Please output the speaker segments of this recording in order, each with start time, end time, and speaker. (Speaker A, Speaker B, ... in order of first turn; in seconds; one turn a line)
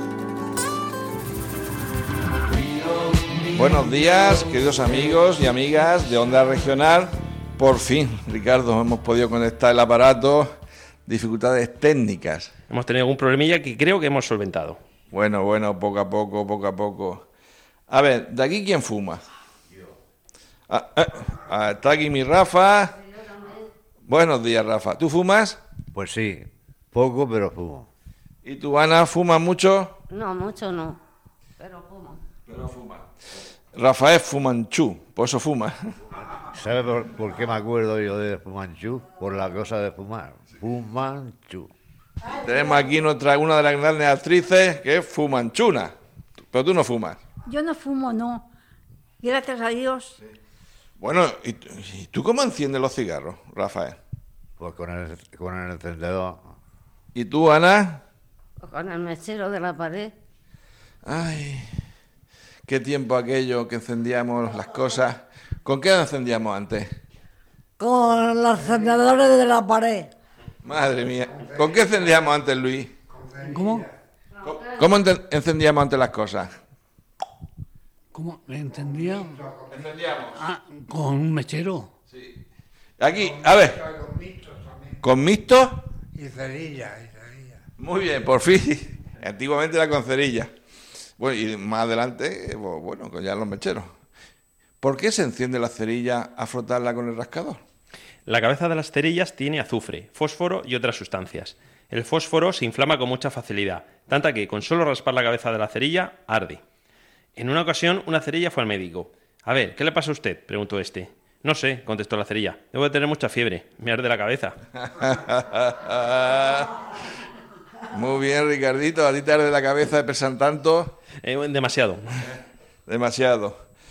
Speaker A: 3.6-10.5
Speaker A: 11.1-12.5
Speaker B: 12.7-14.8
Speaker A: 15.1-17.2
Speaker A: 17.9-19.2
Speaker A: 20.7-22.9
Speaker C: 22.9-23.7
Speaker A: 24.1-25.6
Speaker D: 25.9-27.9
Speaker A: 28.4-29.9
Speaker C: 30.1-31.0
Speaker C: 31.6-32.2
Speaker A: 32.5-33.1
Speaker A: 33.7-35.8
Speaker D: 36.3-41.7
Speaker A: 42.2-45.9
Speaker A: 46.5-47.2
Speaker E: 47.5-48.5
Speaker E: 49.2-50.1
Speaker A: 51.0-54.0
Speaker D: 54.6-56.4
Speaker A: 57.1-58.0
Speaker C: 58.6-60.1
Speaker A: 61.0-61.7
Speaker A: 62.6-66.9
Speaker F: 67.8-70.1
Speaker A: 70.6-72.9
Speaker G: 71.3-72.2
Speaker G: 73.0-74.0
Speaker H: 73.4-73.8
Speaker A: 74.4-76.5
Speaker H: 78.1-79.2
Speaker G: 78.7-80.1
Speaker A: 79.7-80.4
Speaker H: 80.4-81.9
Speaker A: 82.1-82.4
Speaker A: 83.0-83.8
Speaker G: 83.1-85.0
Speaker A: 85.0-85.9
Speaker G: 86.1-87.6
Speaker A: 87.8-90.5
Speaker A: 91.2-93.9
Speaker A: 94.8-97.6
Speaker B: 98.2-106.6
Speaker B: 107.3-114.6
Speaker A: 114.8-116.8
Speaker A: 117.9-120.9
Speaker B: 121.2-122.0
Speaker A: 122.9-123.6